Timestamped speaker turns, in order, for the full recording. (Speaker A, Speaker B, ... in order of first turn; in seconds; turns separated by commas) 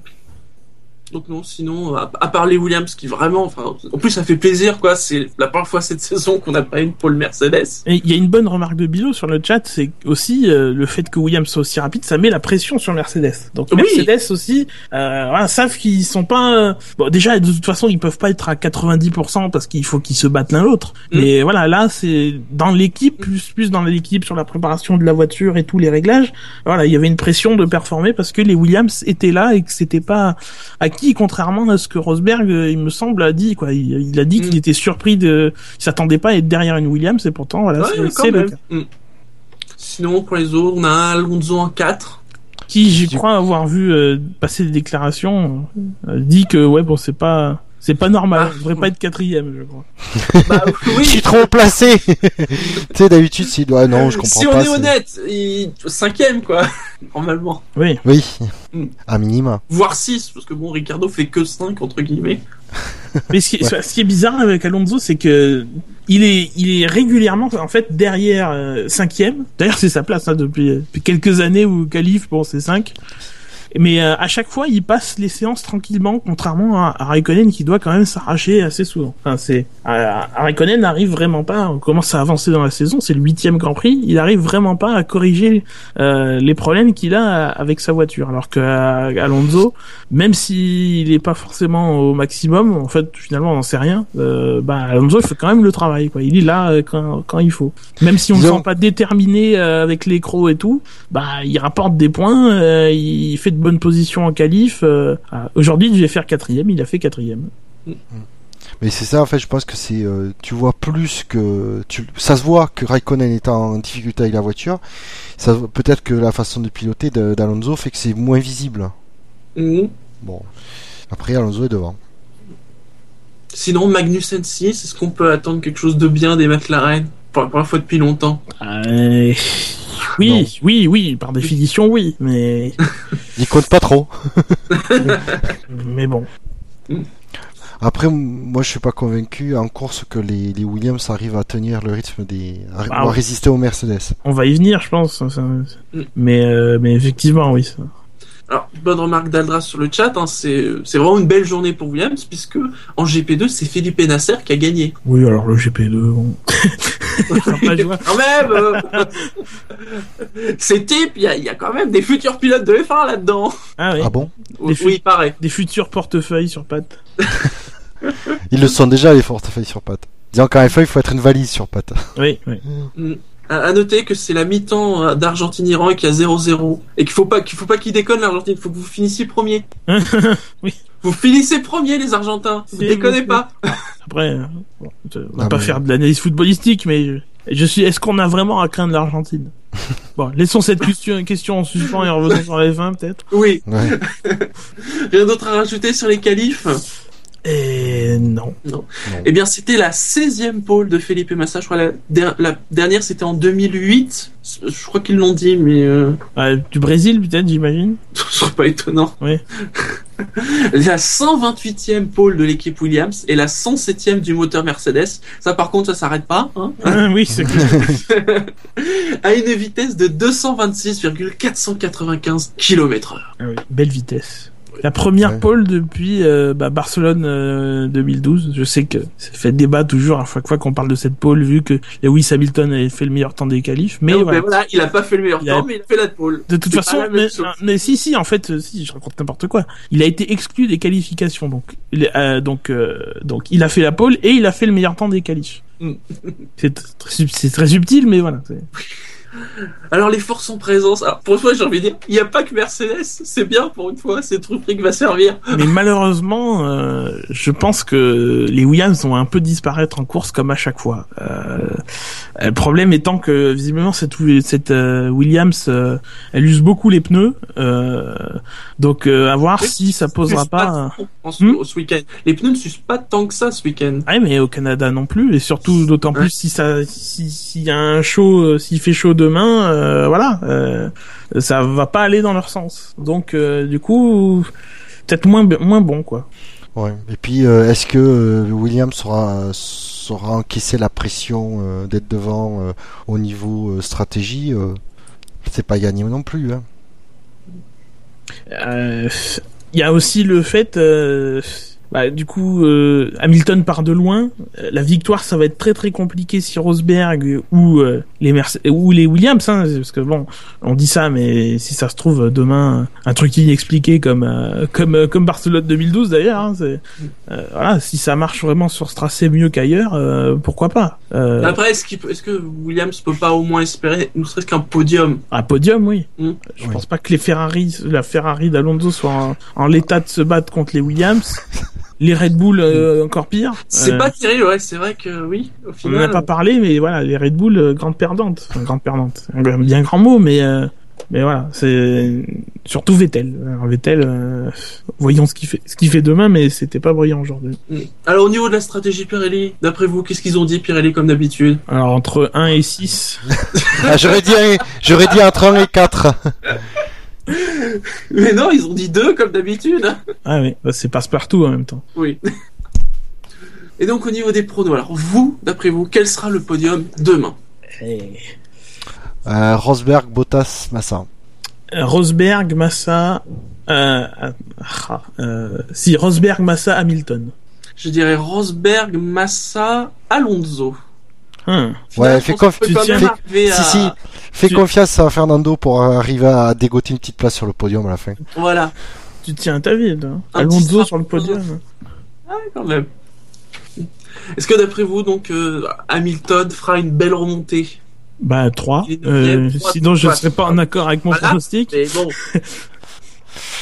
Speaker A: 1.1-7.8, Speaker B: 7.8-38.5, Speaker A: 13.7-14.1, Speaker A: 37.8-38.9, Speaker A: 39.8-42.2, Speaker B: 42.7-49.9, Speaker A: 48.3-48.9, Speaker C: 50.1-54.9, Speaker A: 50.4-51.5, Speaker A: 54.0-57.6, Speaker B: 57.8-58.0, Speaker C: 58.0-58.5, Speaker C: 59.1-59.6, Speaker A: 59.7-62.4, Speaker B: 63.3-72.9, Speaker B: 73.7-107.5, Speaker C: 98.3-98.7, Speaker C: 108.8-114.8, Speaker C: 115.3-118.9, Speaker A: 119.5-119.9, Speaker C: 120.2-120.5, Speaker C: 121.1-122.0, Speaker A: 123.5-128.4, Speaker B: 128.6-132.8, Speaker C: 130.2-130.5, Speaker C: 133.3-134.6, Speaker A: 134.7-135.5, Speaker B: 135.0-136.3, Speaker C: 137.8-144.2, Speaker B: 142.9-143.2, Speaker B: 144.2-147.9, Speaker A: 148.5-154.9, Speaker B: 155.0-159.3, Speaker A: 157.3-159.1, Speaker A: 159.8-163.6, Speaker B: 163.8-167.0, Speaker C: 164.0-164.3, Speaker A: 164.6-165.3, Speaker A: 168.0-168.4, Speaker C: 168.5-172.1, Speaker B: 172.2-172.6, Speaker A: 172.9-179.6, Speaker B: 179.9-180.8, Speaker A: 181.0-183.7, Speaker B: 182.7-189.5, Speaker C: 185.4-185.8, Speaker B: 190.2-193.2, Speaker A: 193.3-196.8, Speaker C: 193.7-193.9, Speaker B: 197.4-198.6, Speaker A: 198.7-206.2, Speaker B: 206.3-208.0, Speaker A: 208.1-209.2, Speaker A: 209.7-217.0, Speaker B: 216.8-218.0, Speaker C: 217.3-218.0, Speaker A: 217.7-223.3, Speaker B: 223.4-234.4, Speaker A: 234.1-237.6, Speaker B: 236.5-245.6, Speaker A: 245.8-246.3, Speaker B: 246.6-248.7, Speaker A: 249.9-255.6, Speaker B: 255.5-261.8, Speaker B: 262.4-271.6, Speaker A: 269.6-274.1, Speaker B: 274.1-284.5, Speaker B: 285.1-286.3, Speaker C: 286.7-294.8, Speaker C: 295.4-296.6, Speaker B: 298.5-321.6, Speaker A: 321.4-325.2, Speaker B: 325.3-331.4, Speaker B: 332.0-334.1, Speaker A: 333.7-336.3, Speaker B: 335.8-347.6, Speaker A: 347.7-351.6, Speaker B: 351.7-353.3, Speaker A: 353.5-354.2, Speaker C: 353.8-356.3, Speaker A: 357.3-360.0, Speaker B: 360.2-361.8, Speaker A: 363.8-367.3, Speaker B: 367.8-368.3, Speaker C: 369.2-371.1, Speaker B: 371.7-377.3, Speaker A: 377.8-380.8, Speaker B: 381.4-381.8, Speaker A: 381.9-383.9, Speaker C: 381.9-388.2, Speaker B: 382.6-383.1, Speaker A: 388.3-388.7, Speaker B: 389.2-391.6, Speaker A: 390.3-391.4, Speaker A: 392.3-392.9, Speaker A: 393.8-397.8, Speaker B: 398.2-402.6, Speaker A: 398.8-400.6, Speaker A: 401.1-402.1